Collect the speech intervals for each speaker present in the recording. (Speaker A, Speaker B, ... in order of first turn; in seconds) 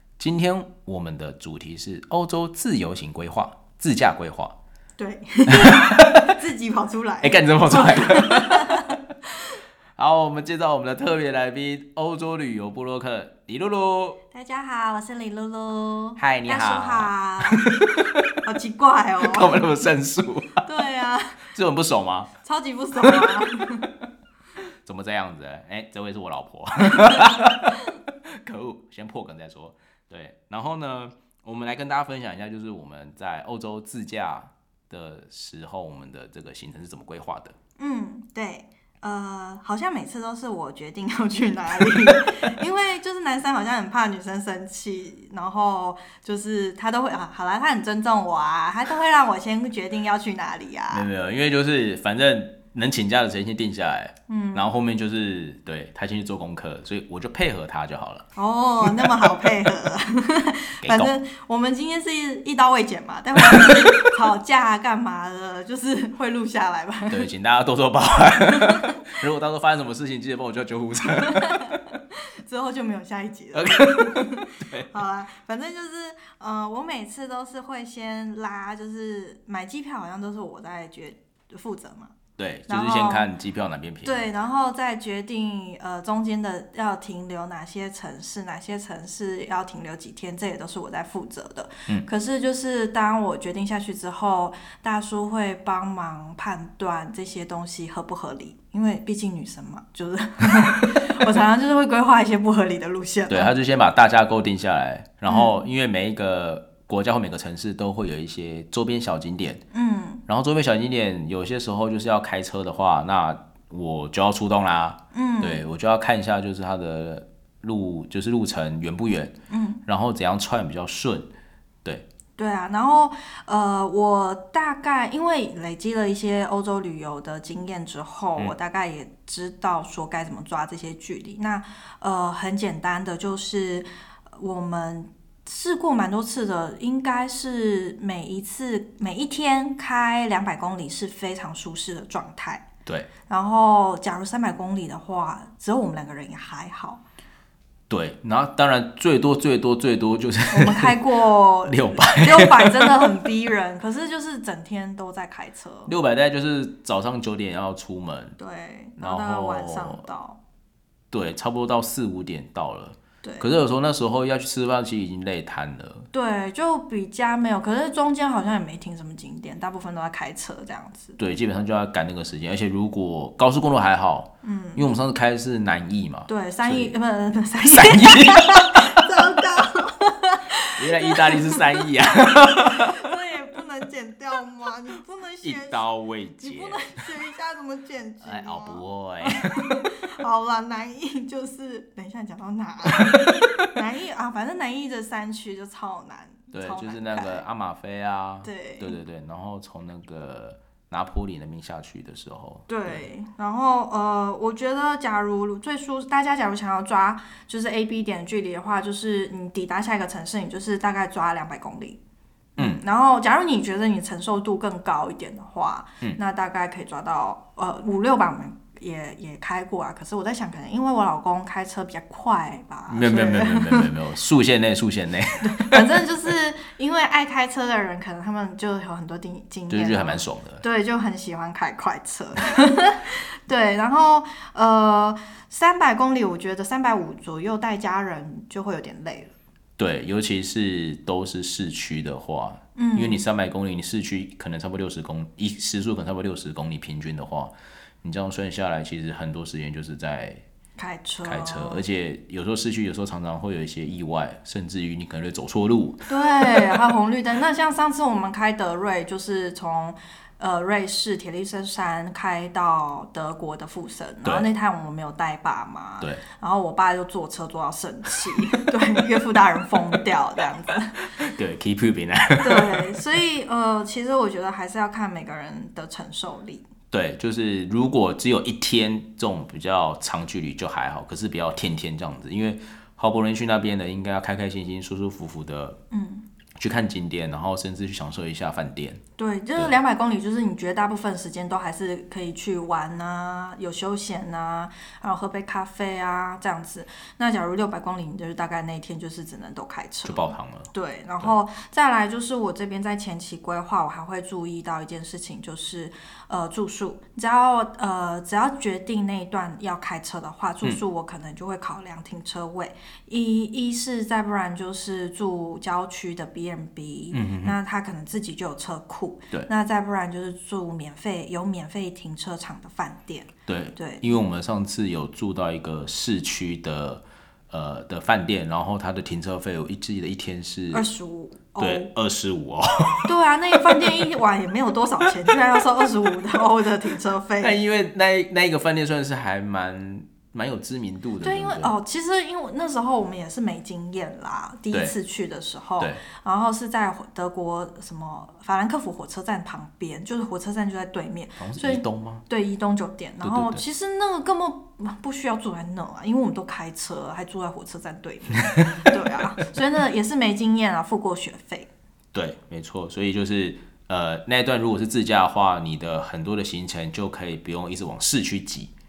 Speaker A: 0.2-4.5, 5.7-6.3, 7.2-9.0, 10.0-14.2, 16.2-18.4, 19.2-20.6, 21.5-22.3, 23.0-23.3, 24.8-27.7, 28.2-37.5, 50.9-58.2, 60.8-61.1, 67.1-71.7, 73.5-74.9, 82.4-84.3, 103.3-109.6, 110.3-119.3, 119.9-121.3, 147.9-151.0, 151.7-153.2, 155.9-158.4, 159.0-160.0, 161.1-166.1, 171.2-176.9, 177.6-179.0, 180.8-182.9, 185.4-187.0, 188.2-189.7, 196.5-203.1, 222.9-225.8, 229.7-230.6, 239.8-250.4, 251.2-256.1, 271.1-272.8, 276.9-285.8, 286.6-289.0, 300.0-301.4, 317.1-317.6, 323.5-330.8, 331.6-334.0, 335.3-335.9, 337.4-341.7, 351.4-352.2, 353.2-353.6, 362.1-368.7
Speaker B: 5.0-8.9, 14.3-19.6, 20.6-21.4, 22.4-23.9, 26.9-27.8, 37.8-51.1, 54.3-54.7, 58.3-67.2, 68.5-68.8, 71.4-82.1, 82.7-83.3, 84.0-103.5, 105.3-105.6, 109.7-110.2, 115.1-115.7, 119.5-119.8, 122.4-142.7, 143.3-147.0, 150.5-155.9, 158.4-160.4, 163.2-163.5, 166.1-171.2, 174.4-174.9, 176.3-181.9, 182.5-185.8, 186.4-197.4, 198.4-198.9, 202.7-212.0, 212.6-223.9, 225.4-239.3, 242.8-243.2, 250.8-251.8, 256.1-271.0, 272.4-276.7, 285.9-286.2, 289.2-324.1, 330.7-331.9, 333.0-337.6, 341.2-361.7